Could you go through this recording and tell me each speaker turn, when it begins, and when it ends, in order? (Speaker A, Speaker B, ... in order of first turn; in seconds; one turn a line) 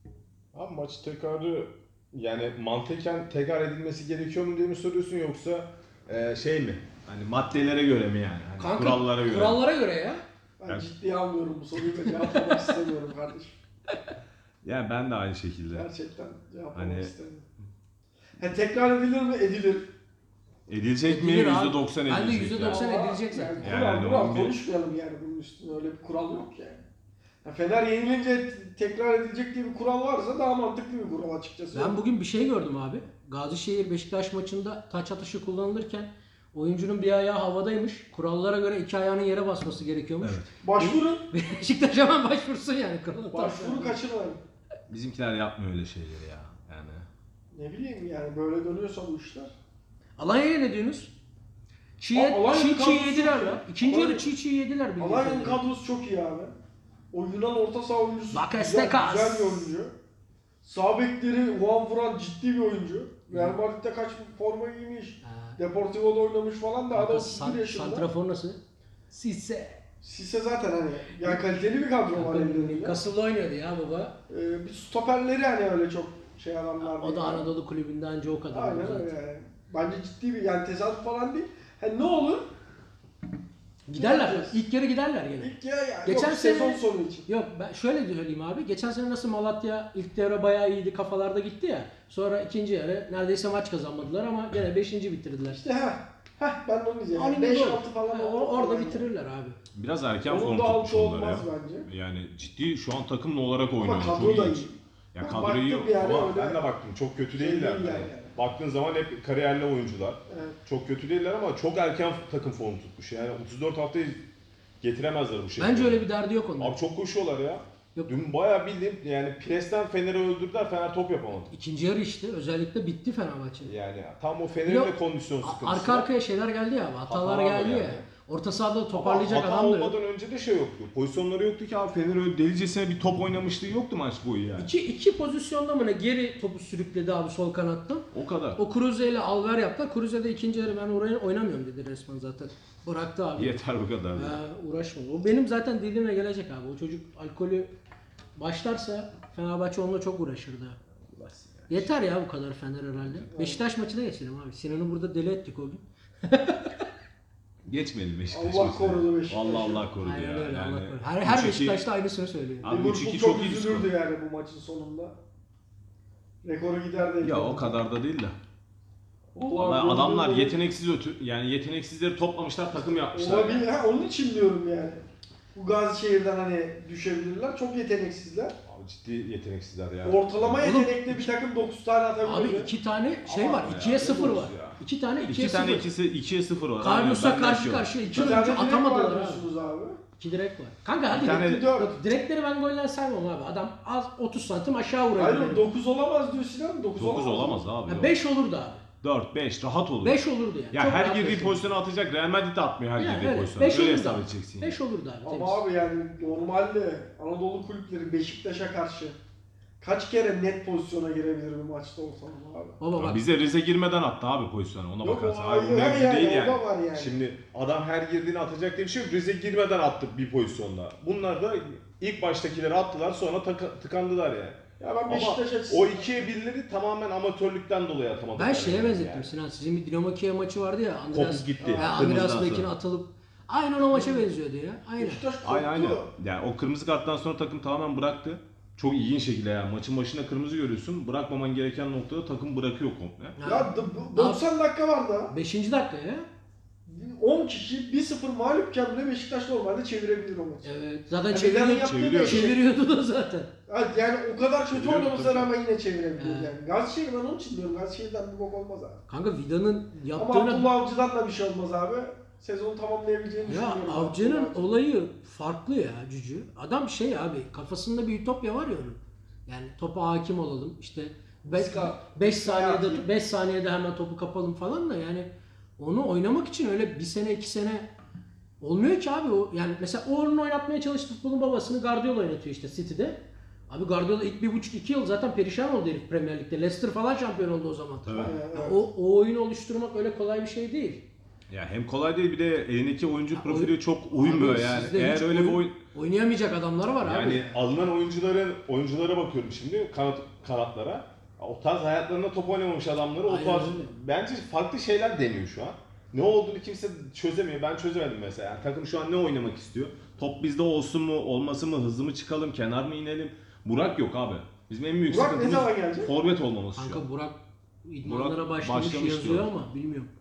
Speaker A: 0.5-9.6
Speaker B: 8.6-10.2
Speaker C: 10.6-13.6
Speaker B: 12.0-12.5
Speaker A: 14.6-15.9
Speaker C: 15.7-17.5
Speaker A: 16.7-17.1
Speaker C: 18.4-19.9
Speaker A: 20.7-22.8
Speaker B: 21.1-23.7
Speaker C: 22.6-26.8
Speaker A: 23.6-24.6
Speaker C: 27.4-32.0
Speaker B: 31.7-44.0
Speaker A: 40.2-40.5
Speaker C: 40.6-41.3
Speaker C: 43.3-44.4
Speaker A: 44.9-47.1
Speaker C: 47.5-49.5
Speaker B: 50.2-51.1
Speaker B: 52.0-55.6
Speaker C: 52.1-54.3
Speaker C: 55.0-56.5
Speaker C: 57.1-59.9
Speaker B: 58.3-59.7
Speaker C: 60.6-68.1
Speaker B: 63.3-63.6
Speaker B: 65.2-65.6
Speaker B: 66.9-68.6
Speaker B: 69.1-69.8
Speaker C: 70.0-73.0
Speaker B: 72.1-74.2
Speaker C: 74.3-77.5
Speaker B: 76.8-79.1
Speaker C: 78.5-82.5
Speaker B: 83.9-85.5
Speaker C: 83.9-84.6
Speaker C: 85.4-87.3
Speaker B: 86.0-95.6
Speaker C: 95.5-99.0
Speaker B: 97.1-99.6
Speaker A: 99.7-114.2
Speaker C: 100.2-101.9
Speaker C: 103.8-106.6
Speaker C: 107.3-108.3
Speaker C: 110.3-110.5
Speaker A: 114.8-116.0
Speaker B: 115.6-116.8
Speaker A: 116.6-121.5
Speaker B: 117.9-118.3
Speaker B: 121.5-123.7
Speaker A: 123.6-126.1
Speaker B: 124.7-129.9
Speaker A: 127.1-128.0
Speaker A: 128.9-134.7
Speaker B: 134.6-143.6
Speaker A: 138.1-138.6
Speaker A: 143.4-144.4
Speaker B: 144.2-147.7
Speaker B: 148.4-150.8
Speaker A: 151.1-151.9
Speaker B: 151.7-156.8
Speaker C: 153.3-153.6
Speaker A: 157.6-161.8
Speaker C: 158.3-159.8
Speaker B: 160.0-162.7
Speaker A: 162.6-163.9
Speaker C: 162.6-165.2
Speaker C: 166.4-167.8
Speaker A: 167.2-168.3
Speaker C: 169.3-170.6
Speaker A: 169.5-173.7
Speaker C: 172.8-178.6
Speaker A: 178.7-180.7
Speaker C: 180.0-182.7
Speaker B: 180.6-181.3
Speaker B: 182.2-185.9
Speaker A: 183.3-188.4
Speaker B: 186.8-189.4
Speaker C: 188.1-190.0
Speaker B: 190.2-195.6
Speaker A: 191.1-191.7
Speaker C: 191.2-192.0
Speaker C: 195.2-197.6
Speaker A: 197.0-198.1
Speaker B: 197.9-198.8
Speaker A: 199.0-200.2
Speaker B: 200.0-201.7
Speaker A: 200.7-204.8
Speaker B: 203.0-205.6
Speaker C: 205.2-209.2
Speaker C: 209.8-212.8
Speaker B: 212.8-213.2
Speaker A: 212.9-229.3
Speaker C: 215.0-217.2
Speaker C: 224.8-226.1
Speaker B: 228.3-235.2
Speaker A: 231.1-232.7
Speaker C: 231.6-231.9
Speaker C: 233.9-234.2
Speaker C: 235.0-236.1
Speaker A: 235.4-243.4
Speaker B: 243.4-244.4
Speaker C: 243.4-245.3
Speaker B: 245.3-246.3
Speaker C: 246.9-250.7
Speaker B: 250.6-253.5
Speaker C: 251.3-252.6
Speaker A: 251.8-252.5
Speaker C: 253.7-259.0
Speaker A: 254.7-255.5
Speaker B: 256.2-256.5
Speaker B: 259.1-260.7
Speaker C: 260.1-264.7
Speaker B: 263.5-277.9
Speaker C: 271.4-273.1
Speaker B: 278.6-291.1
Speaker A: 288.1-288.4
Speaker C: 288.2-288.8
Speaker A: 291.5-295.8
Speaker B: 293.3-297.6
Speaker A: 297.0-317.0
Speaker B: 303.2-303.9
Speaker C: 315.1-316.1
Speaker B: 316.8-320.1
Speaker A: 318.0-319.5